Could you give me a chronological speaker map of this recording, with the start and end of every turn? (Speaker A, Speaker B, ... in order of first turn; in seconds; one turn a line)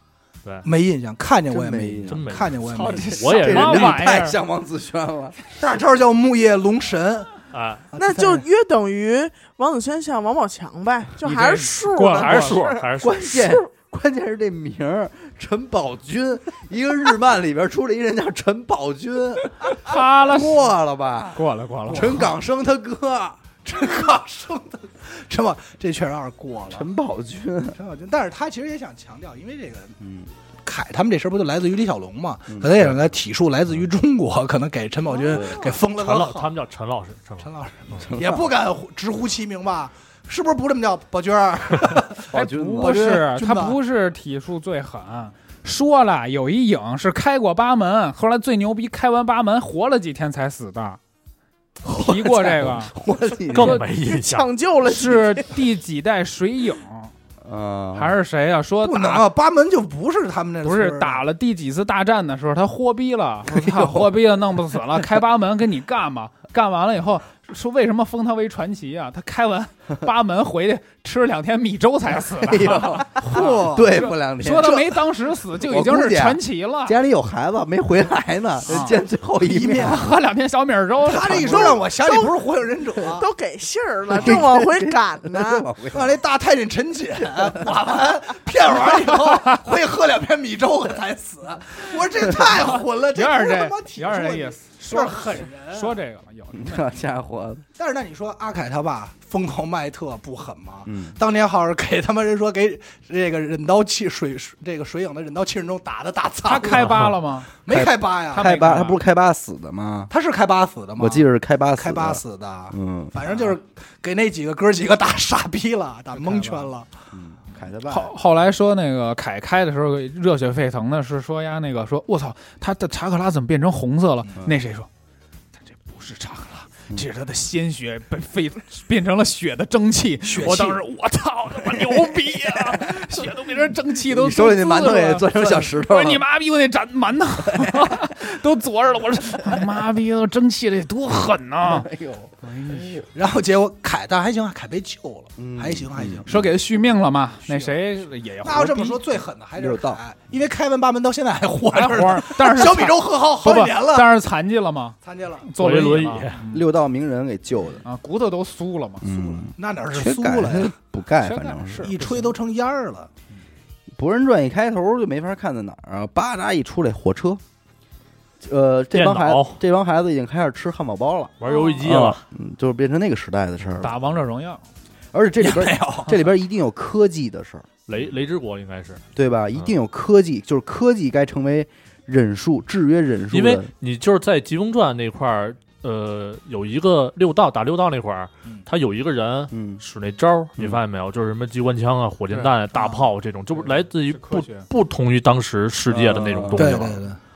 Speaker A: 0.6-3.2
Speaker B: 1.5-2.2
Speaker C: 2.1-4.1
Speaker D: 2.7-4.4
Speaker B: 3.4-5.4
Speaker A: 5.5-7.3
Speaker C: 7.5-7.9
Speaker A: 7.9-8.4
Speaker E: 8.0-12.9
Speaker D: 11.2-12.7
Speaker C: 12.1-13.6
Speaker B: 13.0-23.8
Speaker D: 19.6-20.6
Speaker D: 21.3-22.3
Speaker A: 21.9-22.3
Speaker A: 23.6-26.9
Speaker B: 26.7-27.8
Speaker A: 27.7-30.0
Speaker B: 30.0-30.3
Speaker A: 30.6-36.5
Speaker B: 32.5-33.0
Speaker E: 35.2-35.7
Speaker B: 35.3-35.7
Speaker C: 35.9-37.5
Speaker A: 37.4-43.8
Speaker B: 38.1-38.5
Speaker B: 42.3-43.0
Speaker D: 42.3-51.0
Speaker B: 51.8-53.8
Speaker D: 51.9-53.0
Speaker C: 53.5-54.5
Speaker E: 53.7-55.5
Speaker D: 54.9-57.1
Speaker B: 57.4-58.1
Speaker D: 57.9-59.2
Speaker A: 58.8-61.2
Speaker D: 60.6-77.0
Speaker B: 63.5-64.0
Speaker B: 72.4-74.9
Speaker A: 73.2-74.1
Speaker B: 75.7-80.1
Speaker D: 78.7-79.0
Speaker A: 79.4-80.0
Speaker D: 79.7-81.8
Speaker A: 81.0-83.3
Speaker E: 81.6-82.4
Speaker E: 83.1-85.7
Speaker B: 84.1-86.2
Speaker A: 85.9-96.0
Speaker B: 87.2-87.7
Speaker D: 88.8-89.6
Speaker D: 92.5-97.0
Speaker B: 96.5-97.7
Speaker A: 97.8-108.5
Speaker B: 100.9-101.2
Speaker D: 106.4-107.5
Speaker C: 106.8-107.2
Speaker B: 107.7-110.1
Speaker D: 108.3-109.0
Speaker A: 110.1-111.3
Speaker B: 111.0-113.2
Speaker A: 111.8-116.9
Speaker D: 116.1-116.7
Speaker B: 117.1-118.1
Speaker D: 117.8-124.9
Speaker D: 125.7-141.9
Speaker A: 130.2-130.8
Speaker B: 134.1-136.2
Speaker B: 137.5-138.1
Speaker B: 141.6-143.1
Speaker D: 142.4-143.1
Speaker A: 143.1-146.4
Speaker B: 145.4-146.2
Speaker D: 146.3-149.0
Speaker A: 147.4-147.9
Speaker A: 148.4-154.1
Speaker B: 149.6-150.0
Speaker D: 151.7-156.7
Speaker A: 155.0-155.5
Speaker C: 155.6-156.4
Speaker B: 156.5-157.8
Speaker D: 157.8-159.1
Speaker B: 159.0-161.9
Speaker A: 159.1-160.8
Speaker D: 161.2-162.4
Speaker A: 161.8-163.1
Speaker B: 163.9-167.4
Speaker B: 168.4-173.9
Speaker C: 168.9-169.6
Speaker C: 171.4-172.2
Speaker E: 171.4-171.8
Speaker D: 173.8-174.6
Speaker B: 175.1-177.7
Speaker A: 175.4-176.1
Speaker C: 177.9-179.0
Speaker B: 179.2-183.7
Speaker C: 183.3-197.0
Speaker B: 189.5-189.8
Speaker A: 192.8-193.0
Speaker D: 193.6-194.7
Speaker B: 195.9-196.9
Speaker A: 196.6-197.2